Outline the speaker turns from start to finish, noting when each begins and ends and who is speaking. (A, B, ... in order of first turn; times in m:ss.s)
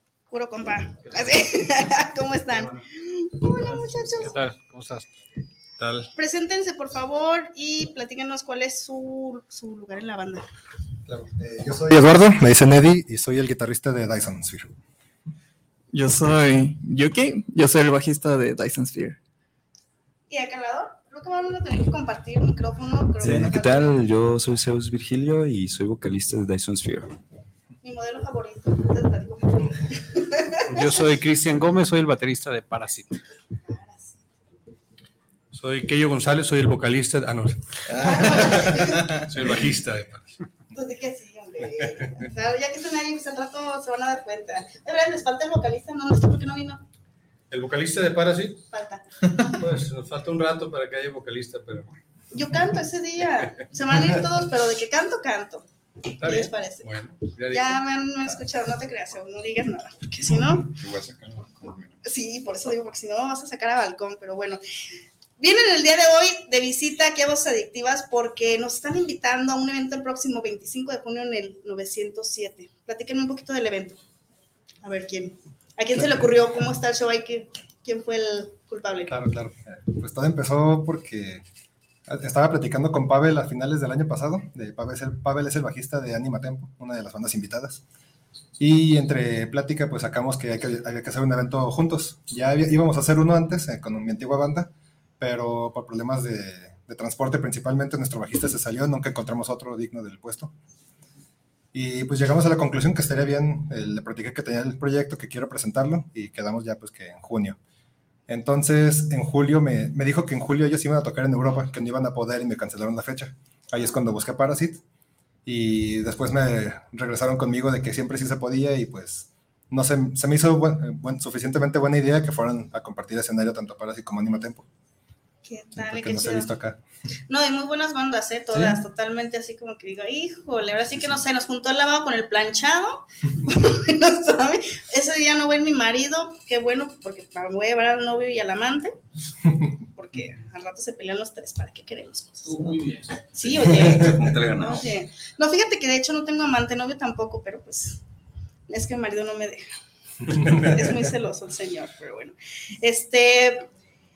0:00.3-0:04.3 A
0:04.1-0:05.1 B
0:05.8-0:06.1 C
0:06.2-0:10.5 A
0:11.3-0:14.7 D
0:15.9-0:19.2 E
0:20.3-0:23.9 A
0:23.2-0:27.1 F
0:27.8-0:30.8 A
0:30.7-0:33.2 B
0:33.7-0:34.2 A
0:35.5-0:40.4 C
0:38.0-0:39.1 A
0:40.7-0:46.8 A
0:47.5-0:48.6 C
0:48.7-0:49.6 A
0:49.5-0:51.9 C
0:52.3-0:55.6 A
0:56.2-0:56.9 A
0:56.2-0:57.8 C
0:57.5-1:00.7 A
1:00.4-1:01.9 F
1:02.0-1:04.6 A
1:05.4-1:14.0 A
1:14.8-1:19.1 A
1:16.0-1:16.3 C
1:19.1-1:19.5 C
1:19.7-1:21.4 D
1:22.0-1:27.8 D
1:28.6-1:40.5 D
1:41.7-1:47.6 D
1:48.3-1:54.8 D
1:55.4-2:04.7 D
2:05.4-2:06.5 A
2:05.7-2:06.8 D
2:07.3-2:18.9 A
2:08.5-2:08.8 D
2:19.9-2:22.7 A
2:22.4-2:23.2 B
2:23.3-2:24.9 F
2:23.4-2:28.0 A
2:28.7-2:29.7 A
2:30.3-2:33.7 A